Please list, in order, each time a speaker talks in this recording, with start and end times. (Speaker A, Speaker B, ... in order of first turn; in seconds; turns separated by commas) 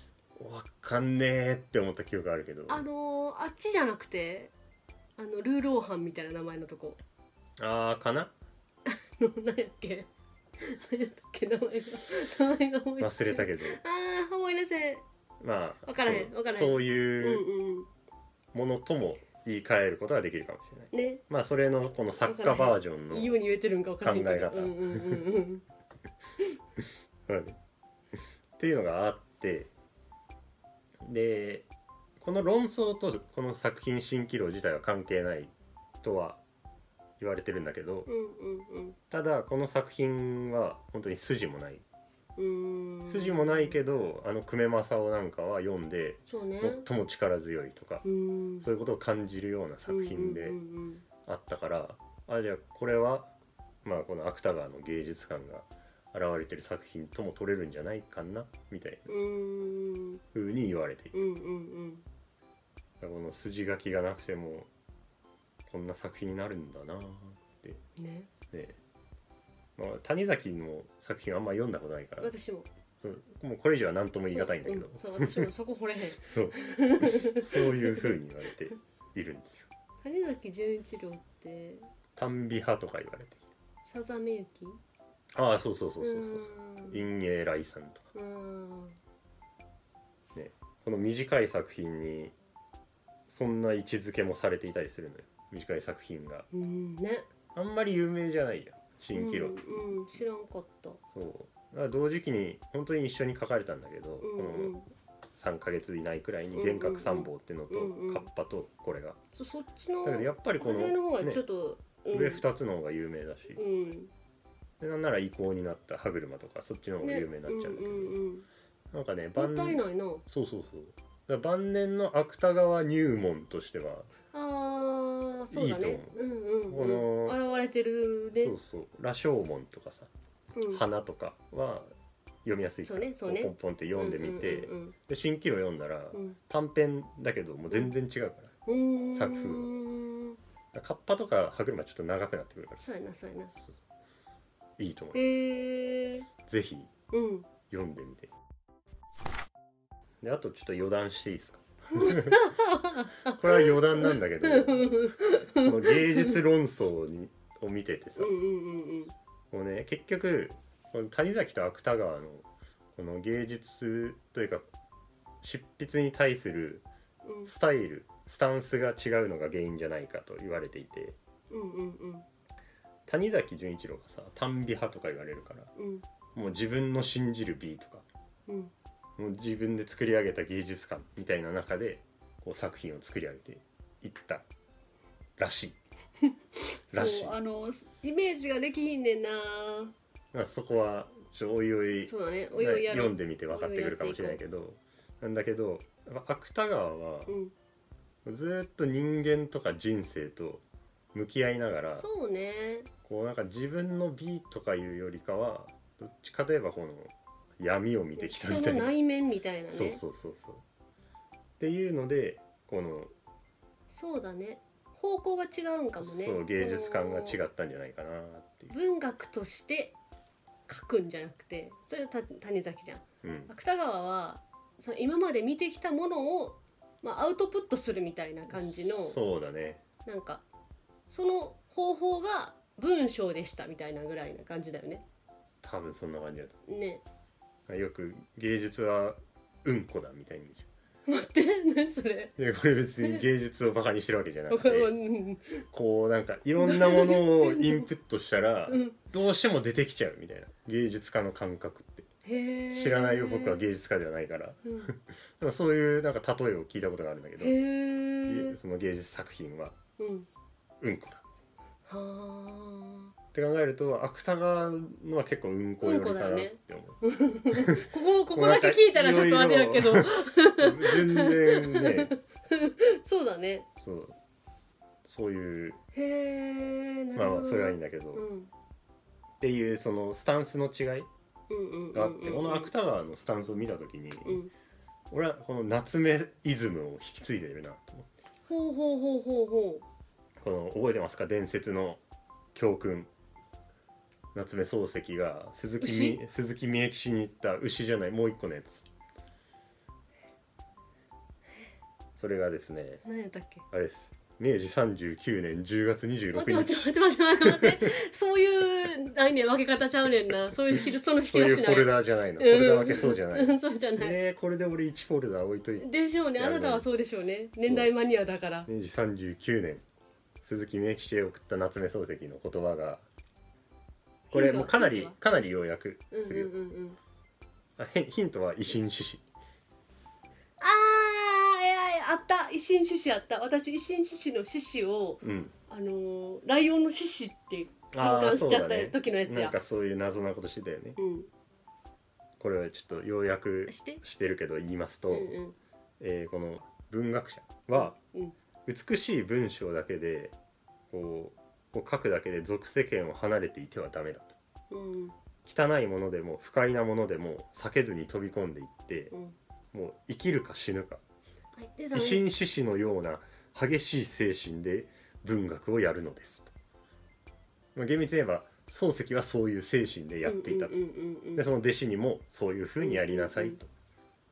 Speaker A: 0.4-2.9, Speaker B: 2.7-4.5, Speaker B: 5.2-7.0, Speaker A: 7.6-8.3, Speaker B: 8.9-10.1, Speaker B: 10.6-15.1, Speaker A: 13.0-13.8, Speaker A: 15.4-17.4, Speaker B: 15.9-17.9, Speaker A: 18.5-23.4, Speaker B: 20.9-21.2, Speaker B: 22.2-25.6, Speaker A: 24.0-25.3, Speaker A: 27.3-27.6, Speaker A: 28.6-29.7, Speaker A: 31.0-31.7, Speaker A: 32.2-36.4, Speaker A: 37.2-38.1, Speaker B: 38.1-39.0, Speaker A: 39.1-41.8, Speaker B: 42.4-43.8, Speaker A: 43.1-48.1, Speaker B: 46.3-46.9, Speaker B: 48.0-48.7, Speaker A: 48.6-50.6, Speaker B: 49.9-51.0, Speaker A: 51.2-53.3, Speaker A: 53.8-59.1, Speaker B: 59.1-60.2, Speaker A: 60.3-61.2, Speaker B: 61.1-62.0, Speaker A: 63.0-64.7, Speaker A: 65.7-67.8, Speaker B: 68.0-68.3, Speaker A: 68.5-68.8, Speaker A: 69.8-72.3, Speaker B: 72.2-72.7, Speaker A: 73.0-75.5, Speaker B: 74.3-78.1, Speaker A: 76.2-79.7, Speaker B: 80.0-81.9, Speaker A: 82.2-83.4, Speaker B: 83.8-84.8, Speaker A: 85.3-88.1, Speaker B: 86.0-87.1, Speaker B: 88.2-89.0, Speaker A: 90.3-92.3, Speaker A: 93.3-96.5, Speaker B: 96.5-97.3, Speaker A: 97.5-99.9, Speaker B: 99.1-101.0, Speaker A: 101.1-104.8, Speaker B: 104.2-104.9, Speaker A: 105.3-109.2, Speaker B: 106.5-108.2, Speaker B: 109.3-112.4, Speaker A: 110.0-111.4, Speaker A: 112.1-113.6, Speaker B: 113.6-114.1, Speaker A: 114.8-118.2, Speaker B: 117.0-118.5, Speaker A: 118.9-124.1, Speaker B: 119.4-120.2, Speaker B: 124.3-128.6, Speaker A: 125.5-126.2, Speaker A: 126.7-127.4, Speaker A: 128.4-130.1, Speaker B: 130.6-130.8, Speaker A: 130.7-131.9, Speaker A: 132.4-138.5, Speaker B: 132.8-135.0, Speaker B: 136.1-136.4, Speaker B: 138.7-140.4, Speaker A: 139.1-139.7, Speaker A: 140.7-142.9, Speaker B: 142.8-143.5, Speaker A: 144.8-145.2, Speaker B: 145.1-146.3, Speaker A: 146.4-146.9, Speaker B: 147.1-147.5, Speaker A: 147.7-148.3, Speaker A: 150.2-152.5, Speaker B: 152.0-156.3, Speaker A: 153.2-158.4, Speaker B: 158.2-159.1, Speaker A: 159.5-164.7, Speaker A: 165.4-166.9, Speaker B: 167.2-167.5, Speaker A: 167.5-171.2, Speaker B: 171.5-172.3, Speaker A: 173.1-175.7, Speaker B: 175.8-176.1, Speaker A: 176.3-178.1, Speaker B: 178.5-178.7, Speaker A: 179.2-184.5, Speaker A: 185.4-185.8, Speaker B: 186.9-189.9, Speaker A: 186.9-187.4, Speaker A: 190.3-197.4, Speaker B: 192.0-194.4, Speaker B: 197.3-197.5, Speaker A: 198.2-202.1, Speaker B: 201.9-202.9, Speaker A: 203.0-208.9, Speaker B: 208.2-210.0, Speaker A: 209.7-210.6, Speaker A: 211.6-213.1, Speaker B: 213.9-217.4, Speaker A: 216.0-218.8, Speaker B: 218.7-220.0, Speaker B: 220.7-229.2, Speaker A: 223.2-223.5, Speaker A: 228.5-229.8, Speaker B: 230.1-230.4, Speaker B: 231.1-235.0, Speaker A: 235.6-236.6, Speaker B: 236.7-237.0, Speaker A: 237.7-240.7, Speaker B: 241.1-242.3, Speaker A: 242.4-244.9, Speaker B: 244.5-245.7, Speaker A: 245.7-252.1, Speaker B: 246.6-247.9, Speaker B: 248.7-248.9, Speaker B: 252.2-253.6, Speaker A: 252.7-257.6, Speaker B: 254.7-254.9, Speaker B: 257.4-258.6, Speaker A: 258.3-259.8, Speaker B: 260.0-260.3, Speaker A: 260.8-261.2, Speaker B: 261.9-263.1, Speaker A: 263.3-267.0, Speaker B: 265.8-273.7, Speaker A: 267.5-272.1, Speaker A: 273.8-274.2, Speaker A: 275.1-275.8, Speaker B: 275.9-278.5, Speaker A: 277.2-278.3, Speaker A: 279.4-281.1, Speaker B: 281.5-282.7, Speaker A: 281.9-284.4, Speaker B: 284.2-284.5, Speaker A: 285.1-288.1, Speaker B: 288.5-289.9, Speaker A: 290.4-292.0, Speaker A: 292.6-293.1, Speaker A: 294.4-298.9, Speaker B: 295.8-296.2, Speaker A: 302.2-303.0, Speaker B: 303.0-303.7, Speaker A: 303.7-307.7, Speaker B: 306.3-314.2, Speaker A: 310.5-316.9, Speaker B: 315.8-318.7, Speaker A: 317.7-317.9, Speaker A: 318.7-319.8, Speaker A: 320.4-323.1, Speaker B: 324.3-325.2, Speaker A: 324.3-326.5, Speaker B: 326.1-327.0, Speaker A: 327.8-329.2, Speaker B: 330.6-339.6, Speaker A: 335.2-335.5, Speaker A: 337.9-341.0, Speaker B: 341.0-341.3, Speaker A: 342.4-345.4, Speaker B: 343.7-344.4, Speaker B: 345.1-345.6, Speaker A: 346.0-348.0, Speaker B: 347.8-348.4, Speaker A: 348.7-350.4, Speaker A: 350.9-354.4, Speaker B: 354.7-355.1, Speaker A: 355.4-359.1, Speaker A: 359.7-361.0, Speaker B: 361.6-362.3, Speaker A: 361.9-366.5, Speaker A: 367.8-370.8, Speaker B: 370.2-371.4, Speaker A: 371.4-373.7, Speaker B: 372.8-373.6